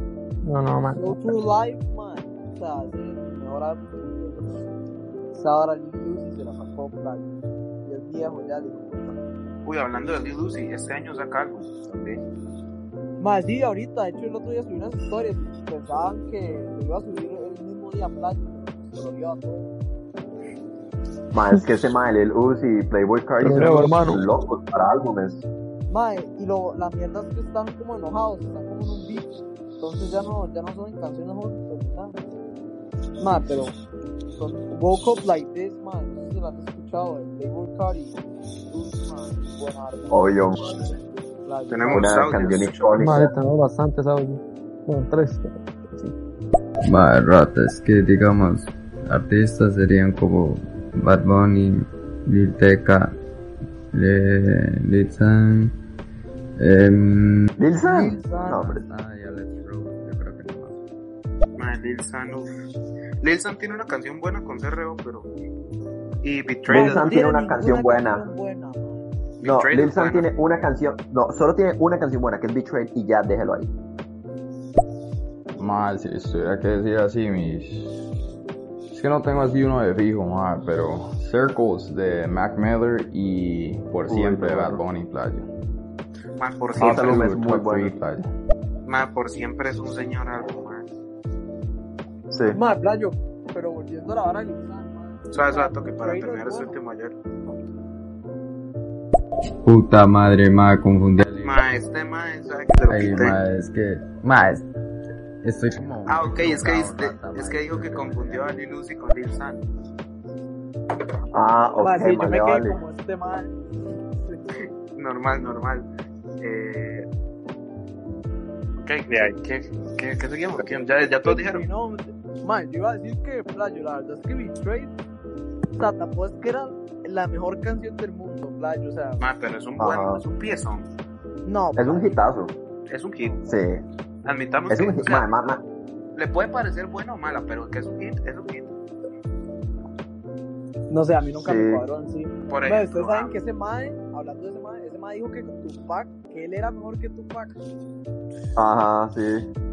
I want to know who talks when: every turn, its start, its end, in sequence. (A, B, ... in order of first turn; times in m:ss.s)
0:00.4-0:01.2 A
0:00.9-0:04.5 B
0:05.3-0:07.3 B
0:07.8-0:09.2 B
0:09.6-0:12.2 C
0:13.2-0:19.7 B
0:21.3-0:25.4 D
0:23.4-0:24.2 A
0:25.9-0:32.1 B
0:33.2-0:33.7 B
0:34.3-0:40.9 B
0:40.1-0:40.8 D
0:41.4-0:42.3 B
0:41.7-0:43.0 C
0:41.9-0:43.4 D
0:43.0-0:46.1 A
0:46.8-0:53.2 E
0:53.9-0:55.7 E
0:56.6-0:57.5 E
0:57.6-0:58.9 D
0:57.8-0:58.6 B
0:58.3-1:00.8 E
1:01.6-1:02.5 C
1:03.2-1:05.3 C
1:06.2-1:07.1 C
1:06.7-1:08.3 D
1:06.7-1:09.1 B
1:09.4-1:10.3 C
1:09.4-1:13.7 D
1:15.6-1:17.9 E
1:18.9-1:25.5 E
1:24.1-1:24.8 D
1:26.4-1:27.3 C
1:26.8-1:28.2 E
1:26.8-1:28.0 D
1:28.8-1:30.9 C
1:32.3-1:32.6 D
1:32.5-1:36.8 B
1:35.3-1:37.1 C
1:39.6-1:41.6 E
1:41.4-1:43.4 C
1:42.9-1:44.7 E
1:45.4-1:48.7 E
1:46.0-1:49.6 C
1:51.3-1:52.8 D
1:51.8-1:53.6 B
1:54.9-1:55.9 C
1:56.4-1:57.1 C
1:58.8-2:01.6 C
2:01.0-2:04.9 B
2:05.7-2:09.2 B
2:09.2-2:10.9 C
2:09.8-2:10.2 D
2:11.4-2:12.1 B
2:11.7-2:12.5 D
2:12.9-2:13.5 C
2:13.4-2:13.8 D
2:14.2-2:15.3 C
2:14.7-2:15.6 D
2:16.2-2:18.7 C
2:20.9-2:27.5 B
2:21.4-2:21.8 D
2:22.5-2:23.3 C
2:28.6-2:29.5 D